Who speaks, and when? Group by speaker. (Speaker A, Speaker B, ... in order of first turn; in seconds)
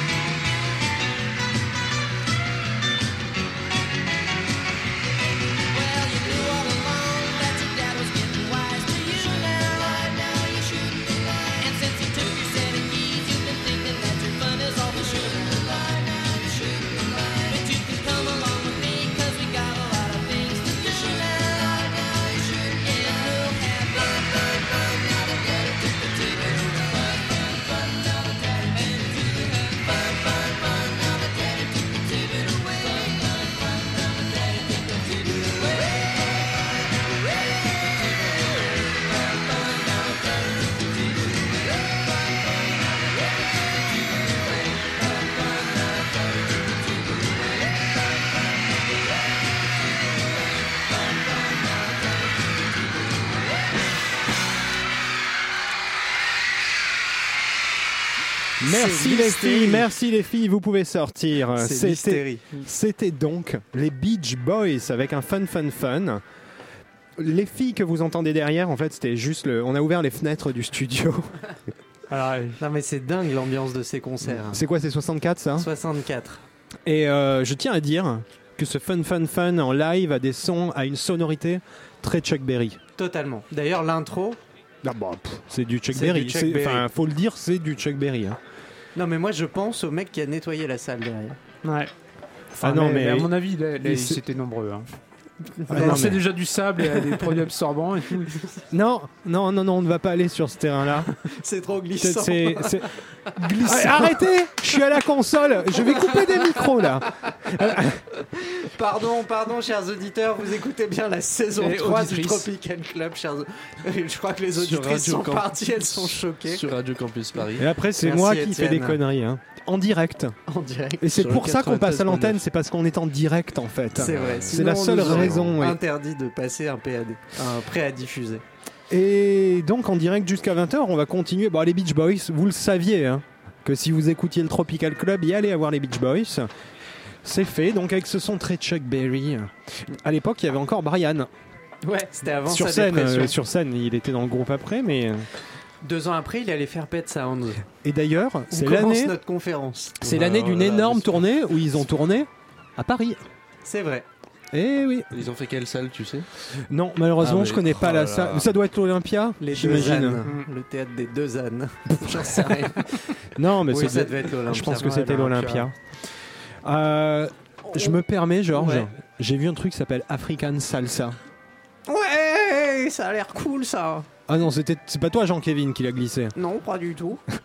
Speaker A: 5.7-33.4, 34.3-35.0
Speaker B: 58.6-66.2, 67.2-71.3, 74.4-75.7, 76.9-82.8, 84.8-88.4, 92.6-93.3, 93.8-94.2, 95.7-96.2, 98.7-101.1, 102.0-108.0, 117.6-120.4, 121.0-125.8, 128.9-136.5, 137.2-141.3, 142.4-145.3, 147.8-149.2, 150.0-153.2, 154.5-155.1, 156.6-160.2, 162.1-162.5, 163.3-165.7, 166.6-171.2, 174.3-176.3
Speaker C: 58.6-59.9, 61.6-62.5, 72.6-74.6, 75.6-76.4, 83.0-84.4, 85.9-86.9, 89.0-91.4, 95.6-96.2, 101.2-102.9, 106.0-106.7, 108.3-116.6, 118.0-119.0, 120.5-121.1, 124.0-128.4, 141.8-143.4, 145.8-147.6, 148.5-150.0, 153.6-154.1, 159.4-163.0, 163.7-165.7, 167.7-168.0, 168.5-168.9, 171.9-174.1, 176.3-177.2
Speaker D: 72.1-72.6, 91.6-91.9, 92.5-94.9, 95.7-98.4, 103.7-104.1, 111.6-112.5
Speaker E: 114.5-117.7, 121.1-122.4, 124.0-125.6, 150.0-151.2, 155.1-156.3, 157.2-158.5